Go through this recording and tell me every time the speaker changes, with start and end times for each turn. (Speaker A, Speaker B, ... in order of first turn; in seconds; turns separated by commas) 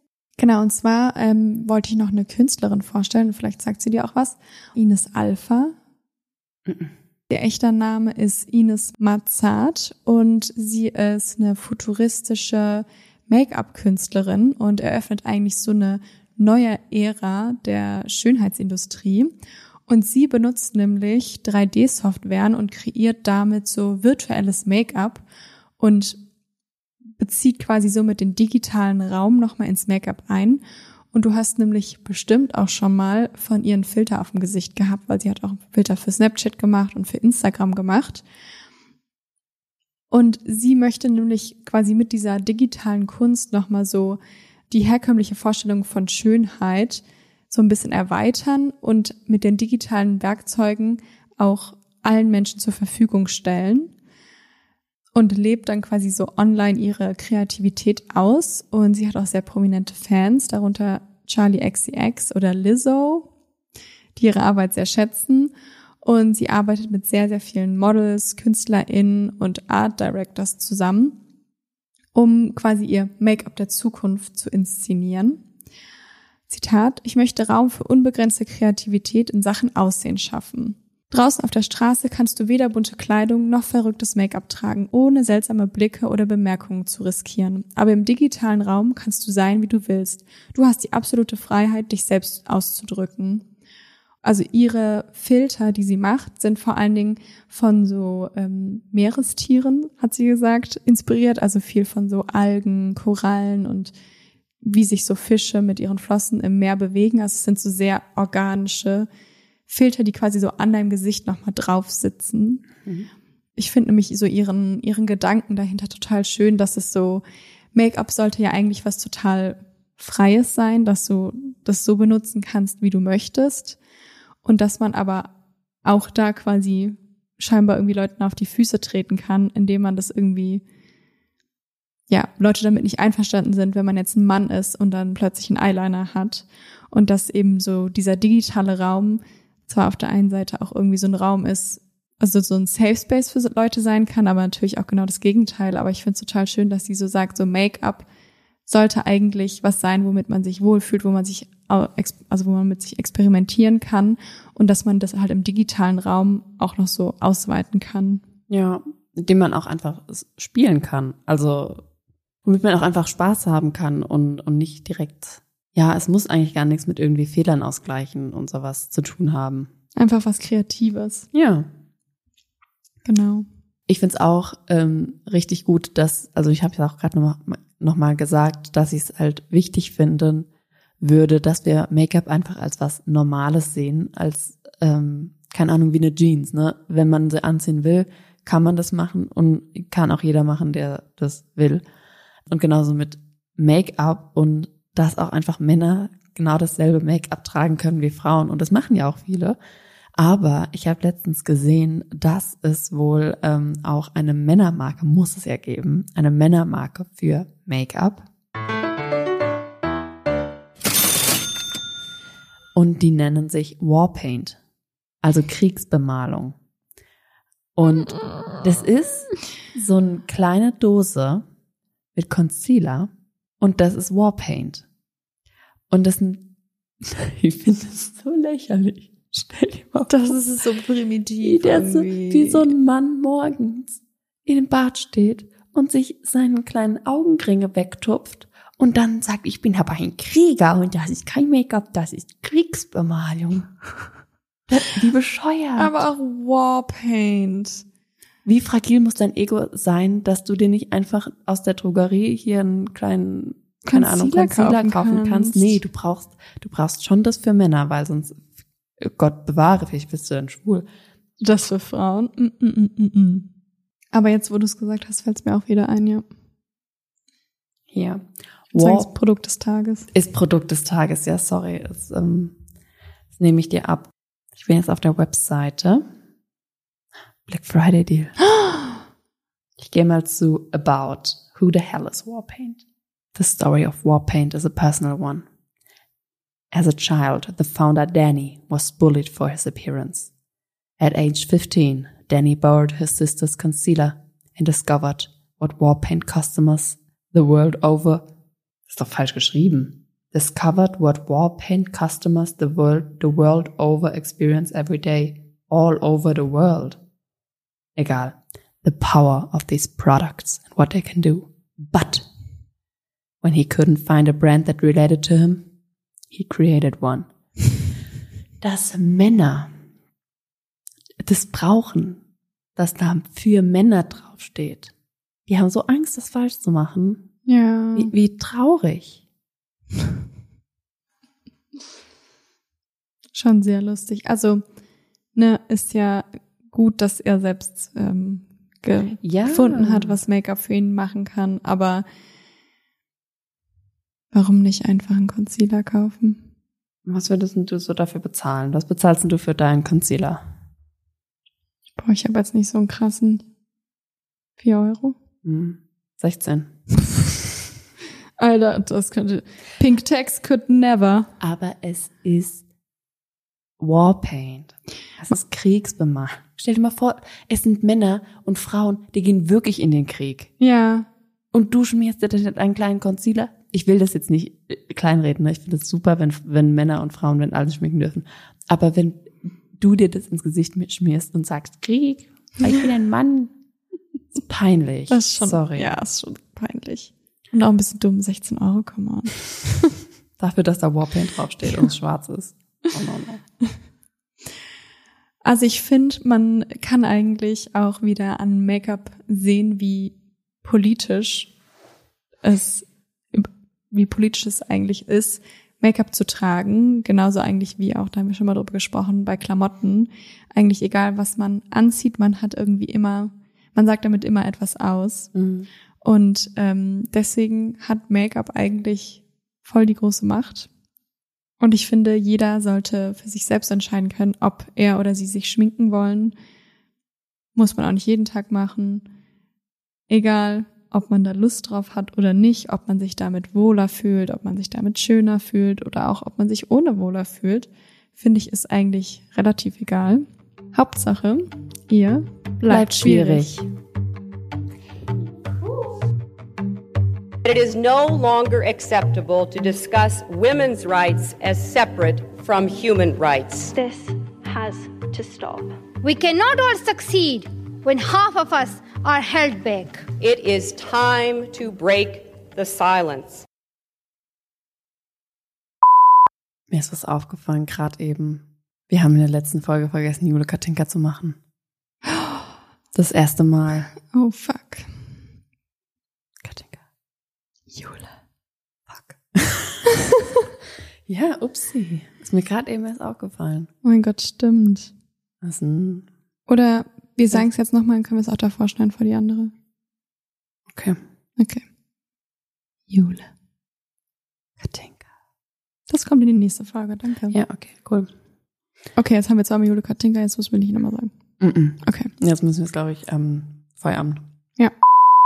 Speaker A: 0.4-5.7, Speaker B: 6.7-6.9, Speaker A: 7.3-19.3, Speaker A: 19.9-25.2, Speaker A: 25.8-26.2, Speaker A: 27.2-30.6, Speaker A: 31.1-38.2, Speaker A: 40.1-44.2, Speaker A: 44.7-53.9, Speaker A: 55.1-63.3, Speaker A: 64.2-71.2, Speaker A: 72.1-75.4, Speaker A: 76.5-93.4, Speaker A: 94.2-103.9, Speaker A: 104.6-109.1, Speaker A: 109.7-112.6, Speaker B: 112.8-113.1, Speaker A: 113.6-117.2, Speaker A: 117.7-123.8, Speaker A: 124.4-125.3, Speaker A: 125.8-130.6, Speaker A: 132.1-148.1, Speaker A: 148.7-158.2, Speaker B: 158.5-161.8, Speaker B: 162.4-169.7, Speaker A: 169.9-171.3, Speaker B: 171.3-171.7, Speaker A: 173.0-173.4, Speaker B: 173.9-180.5, Speaker B: 181.0-191.8, Speaker B: 192.5-199.6, Speaker B: 200.2-208.3, Speaker B: 212.7-214.6, Speaker B: 215.2-216.6, Speaker B: 217.8-221.4, Speaker B: 222.1-223.1, Speaker B: 223.6-224.8, Speaker B: 225.9-226.5, Speaker B: 227.0-230.3, Speaker A: 230.1-232.7, Speaker B: 231.4-243.7, Speaker B: 244.7-246.0, Speaker A: 245.8-247.8, Speaker B: 248.4-258.4, Speaker A: 253.9-255.7, Speaker B: 259.0-260.9, Speaker A: 261.4-263.5, Speaker A: 264.1-266.2, Speaker B: 267.9-269.1, Speaker A: 268.7-270.1, Speaker B: 270.1-272.6, Speaker B: 273.4-276.0, Speaker B: 277.5-278.4, Speaker B: 279.8-282.8, Speaker B: 283.3-285.4, Speaker B: 286.7-290.3, Speaker B: 291.0-298.3, Speaker B: 298.9-307.0, Speaker B: 307.9-312.3, Speaker B: 313.4-315.7, Speaker B: 316.3-317.3, Speaker B: 318.6-319.7, Speaker B: 321.2-322.2, Speaker B: 322.8-324.9, Speaker B: 325.5-327.3, Speaker A: 327.4-328.1, Speaker B: 327.9-329.2, Speaker A: 333.3-334.6, Speaker A: 335.3-342.0, Speaker B: 339.2-340.1, Speaker A: 344.3-346.4, Speaker B: 347.0-350.4, Speaker A: 352.0-353.4, Speaker A: 354.6-355.1, Speaker B: 355.4-356.8, Speaker A: 358.4-361.3, Speaker B: 361.4-362.6, Speaker B: 363.8-370.5, Speaker A: 370.6-371.1, Speaker B: 371.5-383.5, Speaker B: 384.5-385.9, Speaker A: 385.1-389.8, Speaker B: 390.4-393.4, Speaker A: 395.4-401.5, Speaker A: 402.4-415.3, Speaker B: 415.3-415.7, Speaker A: 416.0-420.7, Speaker A: 421.6-426.3, Speaker A: 427.6-429.0, Speaker A: 430.1-443.6, Speaker B: 442.6-443.7, Speaker C: 447.4-453.7, Speaker D: 453.7-455.8, Speaker E: 456.0-460.1, Speaker C: 460.2-463.4, Speaker B: 466.7-471.4, Speaker B: 472.9-473.9, Speaker A: 474.1-474.9, Speaker B: 476.4-476.8, Speaker A: 477.7-478.1, Speaker B: 478.9-479.8, Speaker B: 481.1-483.7, Speaker A: 483.8-484.9, Speaker B: 485.4-486.1, Speaker A: 486.5-489.5, Speaker B: 490.7-491.0, Speaker A: 491.4-491.6, Speaker A: 492.9-493.3, Speaker B: 494.6-495.0, Speaker A: 495.9-497.4, Speaker B: 497.3-498.1, Speaker A: 499.0-501.1, Speaker B: 501.4-504.3, Speaker A: 501.8-502.1